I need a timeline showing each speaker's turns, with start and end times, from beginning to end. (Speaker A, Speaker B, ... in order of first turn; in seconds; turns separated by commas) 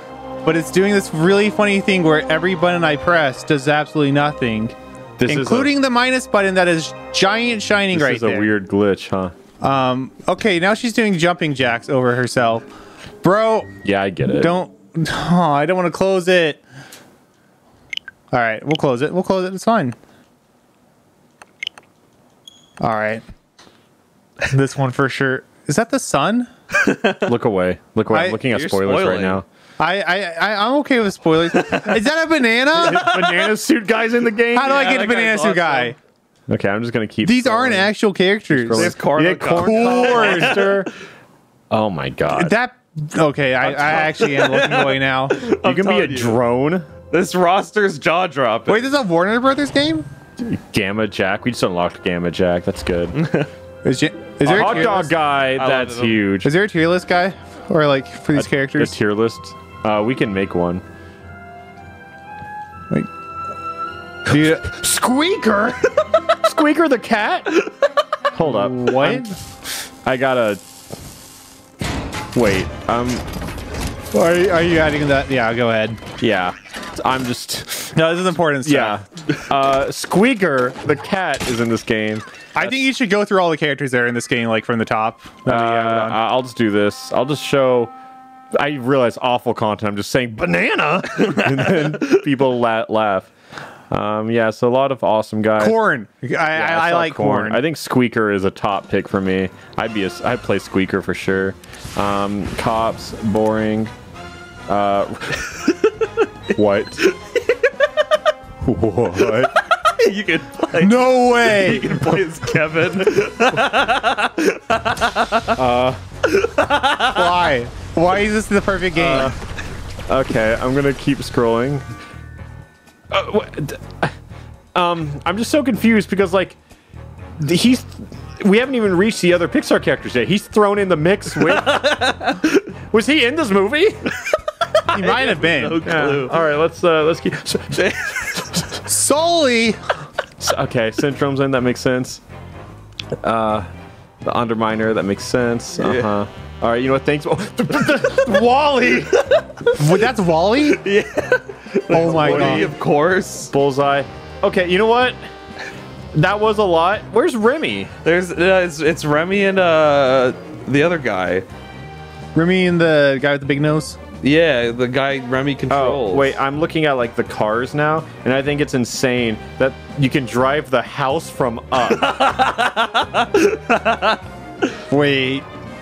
Speaker A: 0.4-4.8, Speaker B: 5.2-5.7, Speaker A: 5.3-8.5, Speaker B: 7.9-9.3, Speaker A: 9.6-12.7, Speaker A: 13.2-13.7, Speaker B: 13.8-14.6, Speaker A: 14.3-16.6, Speaker A: 18.3-19.9, Speaker A: 22.8-23.2, Speaker A: 24.5-26.5, Speaker C: 26.8-27.2, Speaker B: 27.2-29.4, Speaker A: 28.1-28.4, Speaker C: 28.5-29.4, Speaker A: 29.8-33.2, Speaker C: 31.6-31.9, Speaker B: 32.7-35.0, Speaker A: 34.5-36.0, Speaker C: 34.6-36.0, Speaker B: 36.5-37.9, Speaker A: 37.2-38.9, Speaker B: 38.5-40.9, Speaker C: 38.7-40.8, Speaker A: 39.6-40.9, Speaker B: 41.7-42.5, Speaker A: 42.3-45.4, Speaker B: 43.6-44.3, Speaker C: 44.2-46.4, Speaker B: 45.4-46.9, Speaker C: 47.1-48.9, Speaker A: 48.7-50.1, Speaker B: 50.4-53.2, Speaker C: 53.1-53.5, Speaker A: 53.8-55.1, Speaker B: 54.4-56.5, Speaker C: 54.5-56.2, Speaker A: 56.4-59.0, Speaker B: 58.3-60.8, Speaker A: 64.2-64.7, Speaker B: 64.6-65.8, Speaker B: 66.4-67.7, Speaker B: 68.3-69.3, Speaker A: 68.4-69.3, Speaker B: 70.0-70.6, Speaker B: 72.3-73.2, Speaker A: 74.1-76.0, Speaker B: 76.2-78.0, Speaker A: 77.9-79.0, Speaker B: 78.6-82.7, Speaker A: 82.5-86.2, Speaker B: 85.5-87.9, Speaker B: 88.5-93.3, Speaker C: 91.2-92.2, Speaker B: 93.9-95.8, Speaker A: 95.6-97.6, Speaker B: 96.5-103.9, Speaker B: 104.7-105.5, Speaker B: 106.5-107.0, Speaker C: 107.0-107.7, Speaker B: 108.6-109.5, Speaker C: 109.3-115.6, Speaker A: 110.8-112.2, Speaker B: 115.5-116.0, Speaker C: 116.2-117.5, Speaker A: 117.1-119.3, Speaker B: 118.9-119.4, Speaker B: 120.1-121.9, Speaker B: 123.1-124.1, Speaker B: 124.7-126.6, Speaker B: 127.4-131.9, Speaker C: 131.4-132.7, Speaker B: 132.9-134.1, Speaker C: 134.8-136.4, Speaker A: 134.9-136.0, Speaker B: 135.8-137.8, Speaker C: 137.7-138.7, Speaker A: 138.8-139.8, Speaker B: 140.4-142.2, Speaker B: 143.2-143.7, Speaker B: 144.2-149.2, Speaker C: 145.8-146.1, Speaker C: 149.2-149.7, Speaker A: 149.8-150.8, Speaker C: 150.6-153.5, Speaker A: 151.9-152.7, Speaker B: 151.9-152.8, Speaker B: 153.5-155.2, Speaker B: 156.1-157.9, Speaker C: 158.0-161.4, Speaker A: 162.3-164.0, Speaker C: 164.2-166.3, Speaker B: 165.7-172.2, Speaker C: 171.9-174.2, Speaker A: 174.9-175.4